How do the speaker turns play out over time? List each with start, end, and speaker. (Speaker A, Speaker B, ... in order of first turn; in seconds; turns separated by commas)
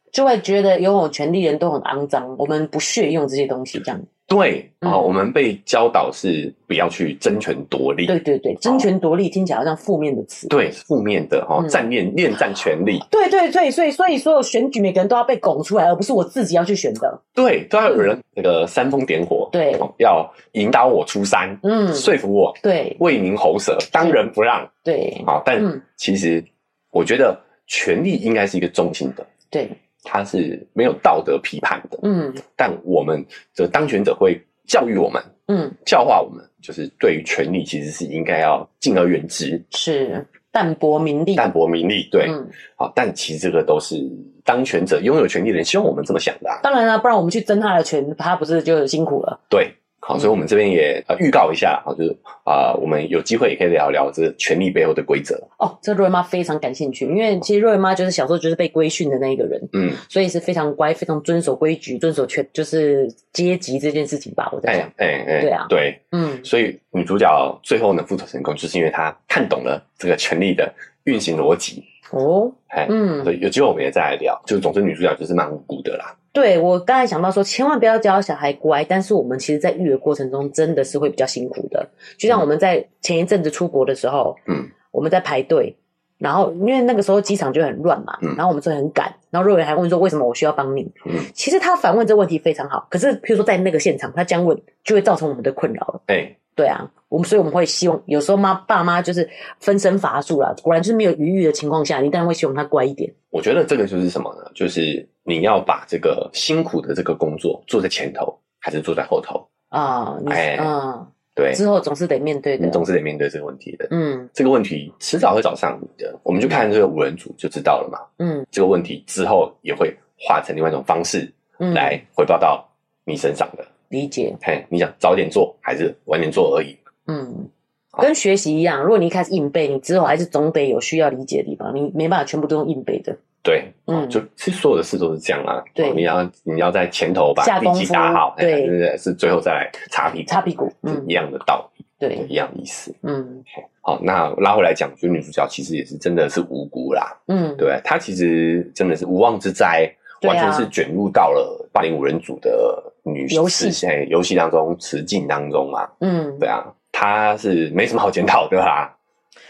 Speaker A: 0.1-4.1, Speaker B: 4.3-8.9, Speaker A: 4.8-5.1, Speaker A: 8.1-10.5, Speaker B: 10.5-13.0, Speaker A: 11.6-11.9, Speaker A: 13.0-17.2, Speaker B: 17.3-24.7, Speaker A: 19.5-19.9, Speaker A: 21.6-23.0, Speaker A: 24.8-25.8, Speaker B: 25.2-29.3, Speaker A: 29.5-29.8, Speaker B: 30.0-35.3, Speaker A: 32.0-32.4, Speaker A: 35.5-35.8, Speaker B: 35.8-39.6, Speaker A: 39.7-41.5, Speaker B: 41.4-46.6, Speaker A: 42.2-42.5, Speaker A: 46.6-49.4, Speaker B: 49.5-55.5, Speaker A: 55.6-66.5, Speaker B: 59.7-60.0, Speaker B: 64.7-71.8, Speaker A: 72.1-73.3, Speaker B: 72.7-76.1, Speaker A: 76.3-96.0, Speaker B: 96.1-96.4, Speaker A: 96.5-103.1, Speaker B: 103.3-109.5, Speaker A: 109.7-112.8, Speaker B: 110.3-110.7, Speaker B: 111.3-111.6, Speaker B: 112.6-123.7, Speaker A: 113.9-114.3, Speaker A: 118.2-118.5, Speaker A: 121.6-122.0, Speaker A: 123.9-124.4, Speaker B: 124.4-126.8, Speaker A: 127.1-133.2, Speaker B: 133.4-142.9, Speaker A: 133.9-134.2, Speaker A: 135.8-136.1, Speaker A: 137.4-138.7, Speaker A: 140.3-141.1, Speaker A: 142.0-142.3, Speaker A: 143.0-143.4, Speaker B: 143.7-158.9, Speaker A: 147.3-147.7, Speaker A: 150.2-150.7, Speaker A: 153.3-153.8, Speaker A: 156.0-156.5